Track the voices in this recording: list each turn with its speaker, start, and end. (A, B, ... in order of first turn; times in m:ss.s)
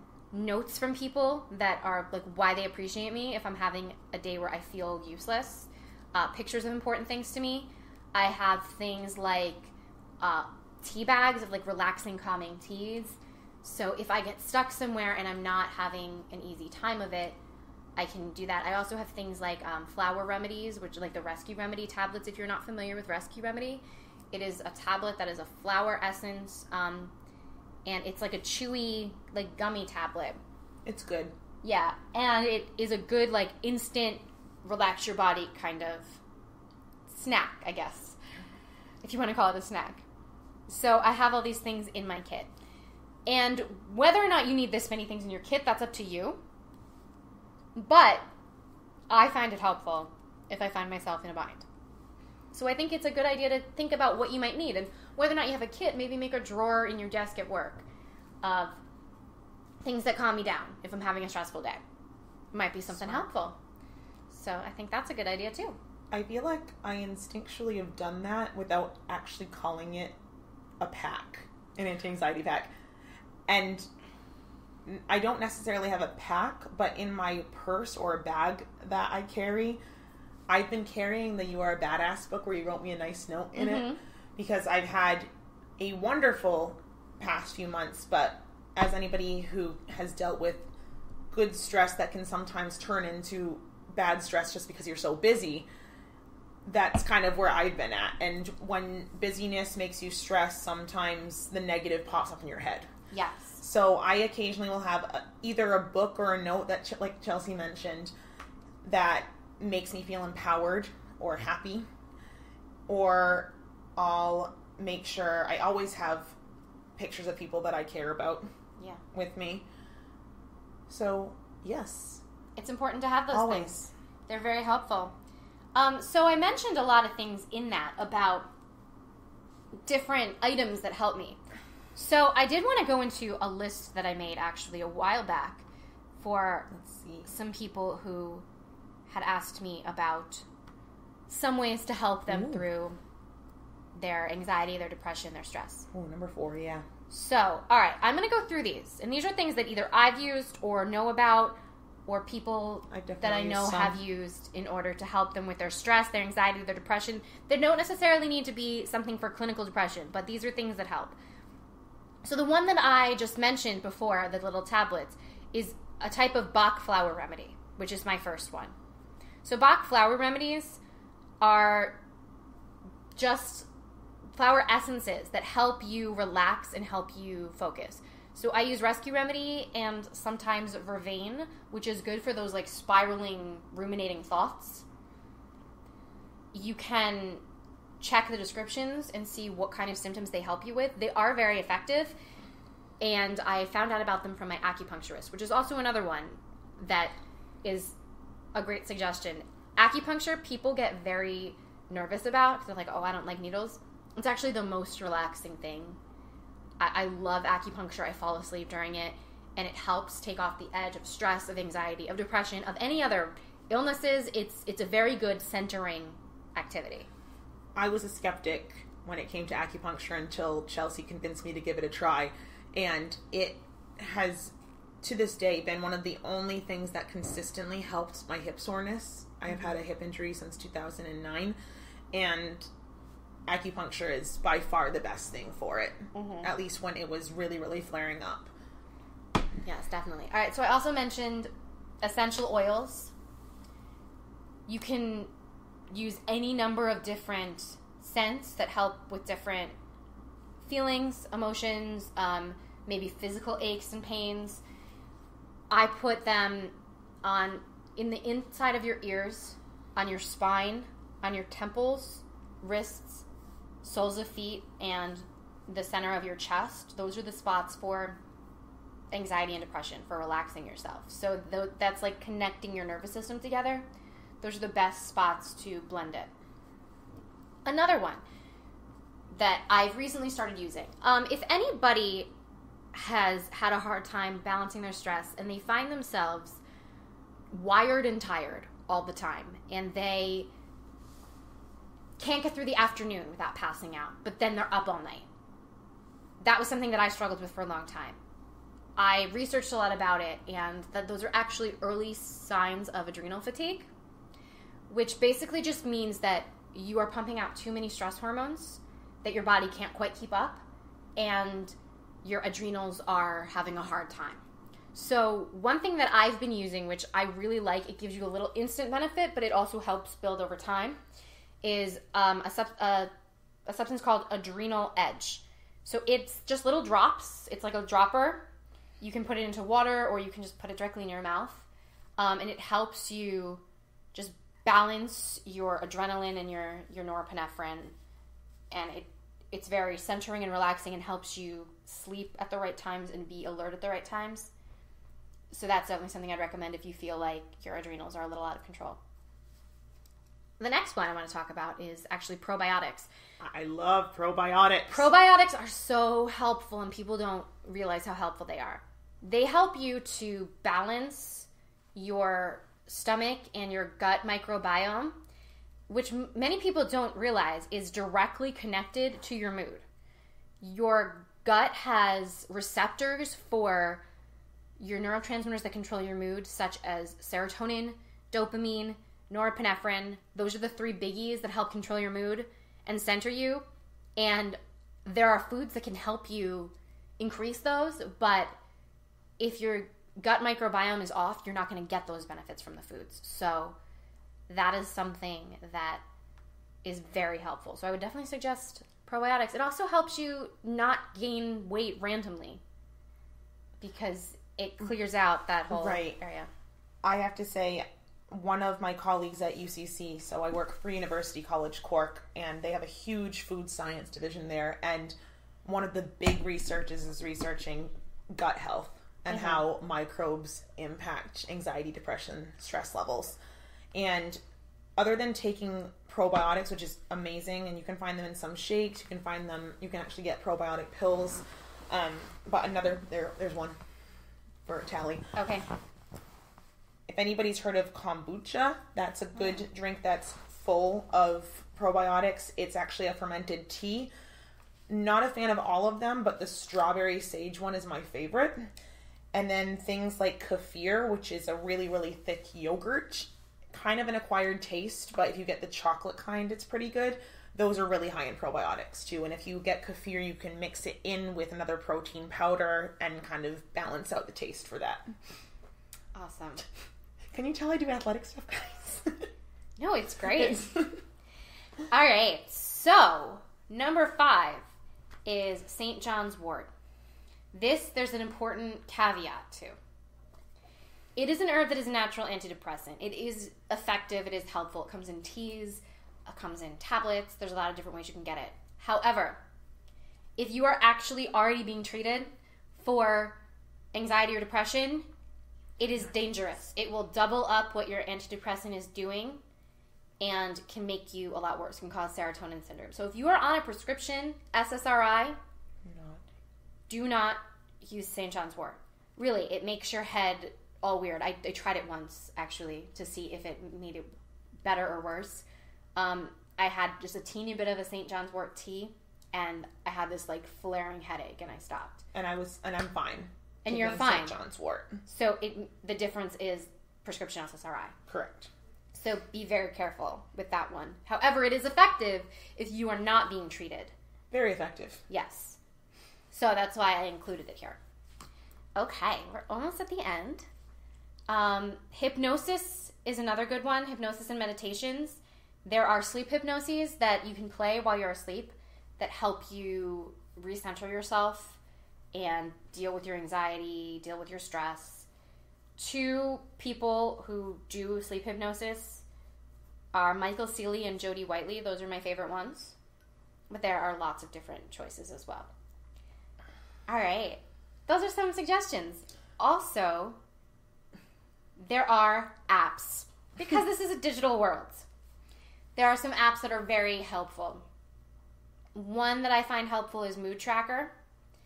0:00.3-0:17.4 A
0:18.0-0:27.1 A
0:27.9-0:30.4 A
0:30.8-0:31.3 B
0:31.6-0:36.2 A
0:37.1-0:38.2 A
0:39.0-0:40.0 A
0:40.7-0:42.5 A
0:43.3-0:46.4 A
0:47.8-0:48.2 A
0:49.1-0:51.6 A
0:52.5-0:57.8 A
0:58.4-0:58.8 A
0:59.8-1:01.8 A
1:02.5-1:03.6 A
1:02.9-1:03.2 B
1:04.3-1:05.8 A
1:06.1-1:10.2 B
1:10.8-1:12.7 B
1:13.5-1:13.9 B
1:14.9-1:19.8 B
1:20.5-1:30.7 B
1:23.6-1:24.0 A
1:31.3-1:35.7 B
1:36.7-1:42.9 B
1:43.1-1:43.6 A
1:43.6-1:48.1 B
1:48.8-1:51.9 B
1:52.9-1:56.4 B
1:57.0-1:58.5 B
1:58.8-1:59.0 A
1:59.1-1:59.6 B
2:00.9-2:02.2 B
2:02.6-2:03.8 A
2:03.3-2:03.9 B
2:04.3-2:05.1 A
2:05.8-2:08.5 A
2:09.9-2:11.4 A
2:12.0-2:15.6 A
2:16.2-2:16.7 A
2:16.7-2:17.3 B
2:17.3-2:18.4 A
2:19.1-2:20.4 A
2:21.3-2:23.0 A
2:22.3-2:22.6 B
2:23.9-2:25.9 A
2:25.9-2:26.9 B
2:27.1-2:41.2 A
2:32.9-2:34.0 B
2:42.2-2:48.7 A
2:49.4-2:50.8 A
2:51.4-2:52.0 A
2:53.2-2:53.7 A
2:54.3-3:04.8 A
3:06.5-3:07.4 A
3:08.0-3:12.2 A
3:13.0-3:18.0 A
3:18.6-3:26.0 A
3:26.8-3:37.1 A
3:37.8-3:51.6 B
3:52.1-3:52.7 B
3:53.5-3:58.5 B
3:56.1-3:56.5 A
3:59.6-4:01.5 A
4:02.0-4:03.1 A
4:04.7-4:05.3 A
4:05.9-4:09.7 A
4:10.6-4:14.6 A
4:15.7-4:23.2 A
4:23.8-4:28.2 A
4:29.1-4:33.9 A
4:34.4-4:36.3 A
4:37.7-4:38.2 A
4:39.3-4:42.3 A
4:42.9-4:46.6 A
4:47.5-4:50.5 A
4:52.2-4:55.3 A
4:56.4-4:58.2 A
4:59.0-5:03.9 A
5:04.9-5:10.6 A
5:11.2-5:14.4 A
5:14.9-5:21.0 A
5:21.6-5:23.1 A
5:23.7-5:28.5 A
5:29.0-5:31.7 A
5:32.2-5:33.6 A
5:34.1-5:38.0 A
5:38.7-5:44.5 A
5:45.5-5:49.0 A
5:50.6-5:53.1 A
5:53.4-5:55.1 B
5:54.9-6:05.2 A
6:05.9-6:09.8 A
6:10.6-6:14.0 A
6:14.8-6:23.6 A
6:24.2-6:28.6 A
6:29.4-6:33.8 A
6:34.5-6:36.0 A
6:36.8-6:42.6 A
6:43.8-6:46.5 A
6:45.7-6:46.2 B
6:47.0-7:03.4 B
6:59.3-6:59.6 A
7:03.9-7:04.4 B
7:05.0-7:13.8 B
7:14.7-7:15.3 B
7:15.4-7:15.7 A
7:17.1-7:24.1 B
7:24.9-7:28.7 B
7:29.3-7:45.0 B
7:46.2-7:46.6 A
7:47.3-7:49.3 B
7:49.8-7:50.8 A
7:50.4-7:51.0 B
7:51.9-7:54.6 A
7:55.3-7:56.7 A
7:57.5-7:59.8 A
8:01.2-8:09.4 A
8:10.4-8:13.4 A
8:13.9-8:15.1 A
8:15.8-8:19.4 A
8:20.2-8:25.4 A
8:25.8-8:26.2 B
8:26.9-8:34.1 A
8:34.6-8:35.4 A
8:36.0-8:42.0 A
8:42.1-8:45.0 B
8:43.6-8:44.4 A
8:45.0-8:48.0 A
8:48.1-8:48.5 B
8:48.9-8:53.9 A
8:54.3-8:55.0 B
8:55.1-8:55.6 A
8:56.3-8:57.8 A
8:58.8-9:00.5 A
9:01.3-9:11.6 A
9:12.1-9:15.1 A
9:15.8-9:19.0 A
9:19.9-9:22.8 A
9:23.5-9:25.5 A
9:26.9-9:30.2 A
9:31.6-9:34.9 A
9:35.8-9:37.6 A
9:38.8-9:40.9 A